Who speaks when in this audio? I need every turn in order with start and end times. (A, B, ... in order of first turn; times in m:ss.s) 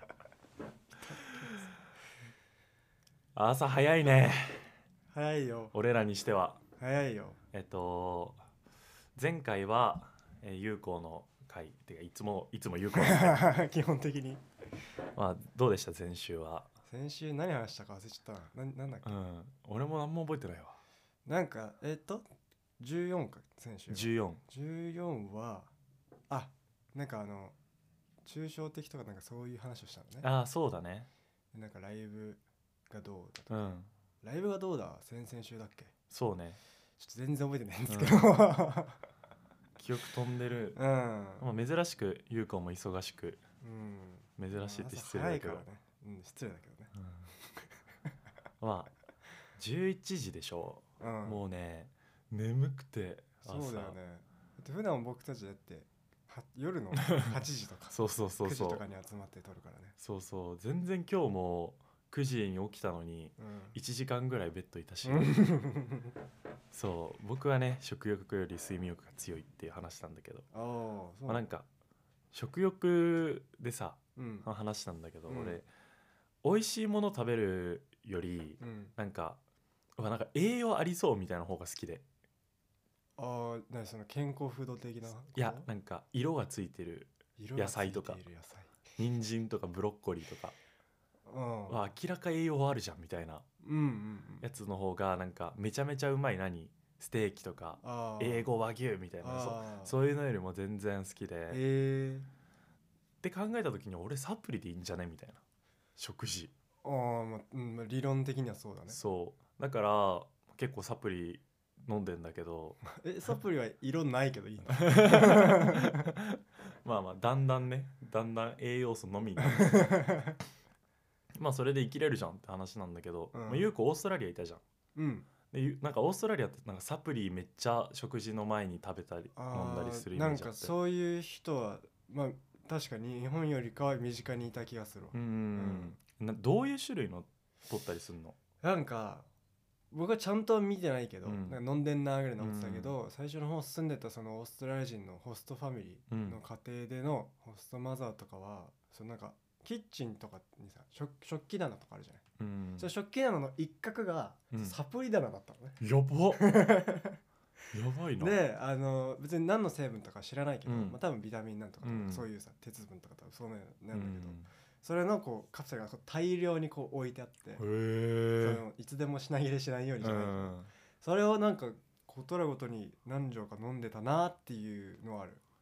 0:01.0-0:01.6 A
0:01.2-0:01.5 B
0:03.4-0:04.7 B
0:05.1-0:05.7 A
0:05.7-0:06.6 B
0:06.8-0:07.4 A
0:07.5-0:08.4 B
0:09.2-0:13.5 B
0:12.9-0:14.4 A
0:15.2-0:16.7 B
0:16.9-0:19.1 A
0:19.0-0:20.8 B
0:21.2-0:22.2 A
0:22.8-0:25.7 A
0:23.9-0:24.4 B
0:26.3-0:27.6 A
0:28.2-0:30.3 A
0:30.2-0:31.1 B
0:31.5-0:33.7 A
0:33.5-0:33.9 B
0:34.2-0:35.9 A
0:36.1-0:36.6 B
0:37.0-0:39.0 A
0:37.9-0:38.3 B
0:39.8-0:40.8 B
0:40.8-0:41.5 A
0:41.4-0:43.4 B
0:43.6-0:46.9 A
0:44.4-0:45.6 B
0:47.0-0:47.3 B
0:48.6-0:48.9 B
0:49.6-0:54.0 B
0:51.0-0:51.4 A
0:53.4-1:00.0 A
0:57.0-0:57.3 B
0:57.9-0:58.8 B
1:00.0-1:05.4 B
1:03.4-1:03.8 A
1:05.0-1:06.1 A
1:06.7-1:10.5 B
1:10.5-1:11.4 A
1:11.3-1:11.7 B
1:12.3-1:15.7 B
1:14.2-1:14.5 A
1:15.3-1:15.6 A
1:16.4-1:19.4 B
1:18.6-1:18.9 A
1:20.0-1:22.0 B
1:23.2-1:25.7 A
1:25.4-1:28.2 B
1:27.4-1:28.8 A
1:29.0-1:30.6 B
1:31.3-1:31.8 A
1:31.7-1:33.5 B
1:33.6-1:34.5 A
1:34.4-1:41.6 B
1:37.8-1:38.5 A
1:39.2-1:40.0 A
1:41.5-1:42.3 A
1:43.2-1:45.4 B
1:46.0-1:46.5 B
1:46.8-1:49.0 A
1:48.9-1:52.8 B
1:52.9-1:56.1 A
1:54.7-2:00.0 B
1:59.4-2:00.4 A
2:01.4-2:04.6 B
2:03.3-2:03.7 A
2:05.0-2:05.3 A
2:05.5-2:10.7 B
2:09.4-2:16.0 A
2:15.1-2:18.4 B
2:18.6-2:19.3 A
2:19.9-2:32.2 A
2:21.2-2:21.6 B
2:22.4-2:23.0 B
2:26.1-2:26.4 B
2:32.4-2:32.9 B
2:32.8-2:35.8 A
2:35.8-2:36.5 B
2:36.3-2:37.2 A
2:37.7-2:38.4 B
2:38.2-2:47.6 A
2:40.7-2:41.0 B
2:41.8-2:42.3 B
2:43.9-2:44.5 B
2:47.6-2:48.6 B
2:48.4-2:55.4 A
2:50.0-2:50.7 B